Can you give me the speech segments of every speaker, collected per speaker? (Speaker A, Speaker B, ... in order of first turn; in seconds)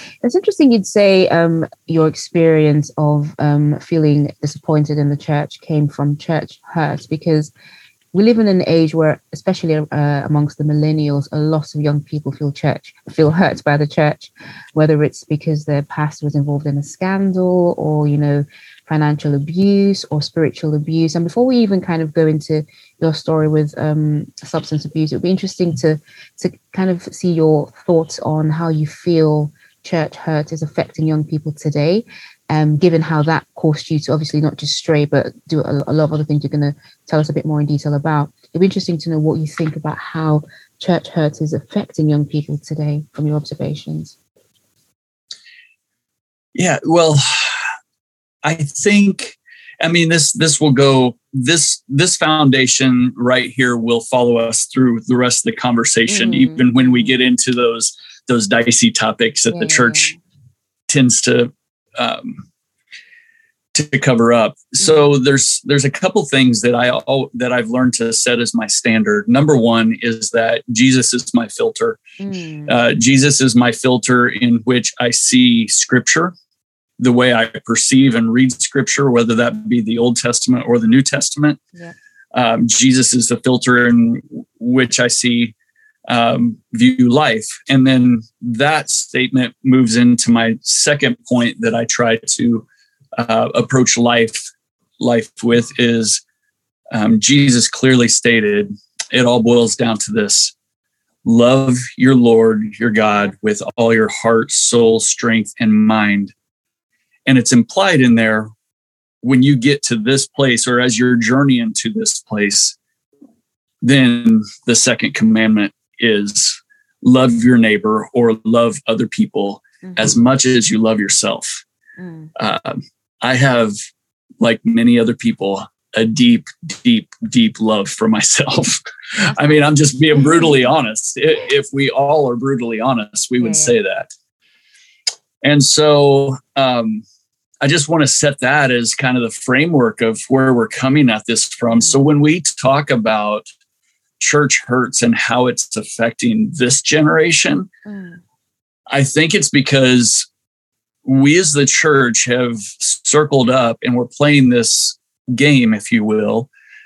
Speaker A: 0.2-7.5, 8.1-44.2, 56.1-57.2, 59.5-60.2, 64.8-65.1, 72.2-72.8, 119.8-120.1, 122.0-122.3, 129.2-130.6, 133.4-133.8, 141.7-142.1, 147.9-148.2
Speaker B: 46.5-47.7, 48.4-60.1, 60.9-62.5, 63.7-72.0, 72.7-76.3, 77.0-81.6, 82.3-85.5, 86.1-92.7, 93.2-94.4, 95.0-96.2, 96.9-100.5, 101.2-106.3, 107.3-108.5, 109.2-112.8, 113.8-121.6, 122.4-123.8, 124.4-134.1, 135.4-137.0, 137.6-143.5, 144.2-147.7, 148.9-150.3, 151.1-156.5